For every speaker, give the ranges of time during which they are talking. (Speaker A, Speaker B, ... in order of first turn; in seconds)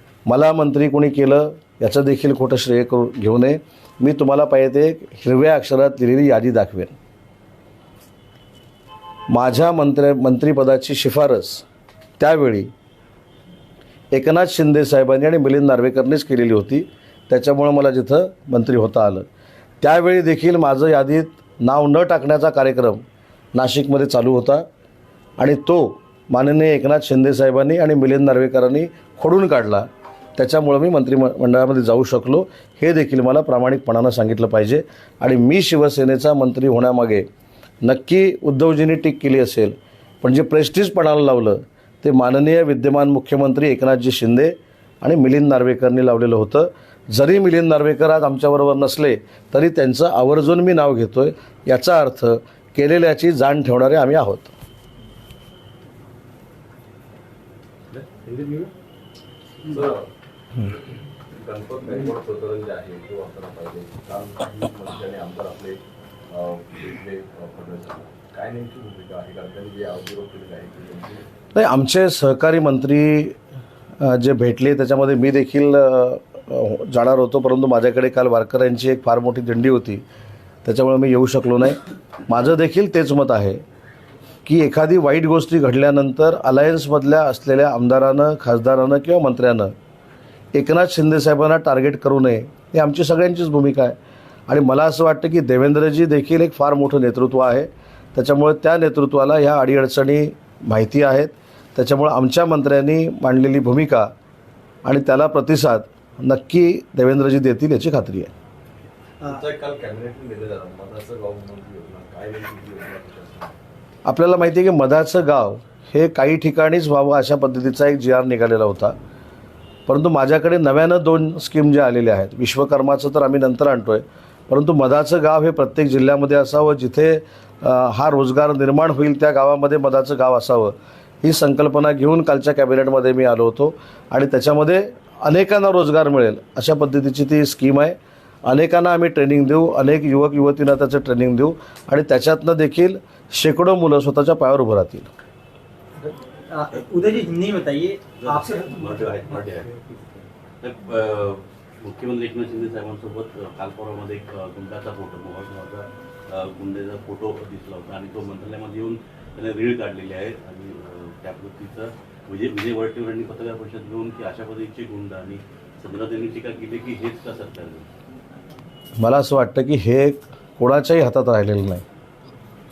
Speaker A: 0.3-6.9, 9.3-11.6, 12.2-12.7, 14.1-19.2, 19.8-23.0, 23.5-24.6, 25.4-37.3, 37.8-54.5, 71.5-73.3, 74.0-80.0, 80.6-83.6, 84.4-89.7, 90.5-94.0, 94.5-104.1, 104.8-108.3, 114.0-119.0, 119.9-145.1, 169.0-171.8
Speaker B: 57.9-58.7, 59.6-60.1, 61.3-65.8, 66.3-71.2, 109.2-113.5
Speaker C: 146.0-150.2
Speaker D: 148.2-149.7, 150.6-167.9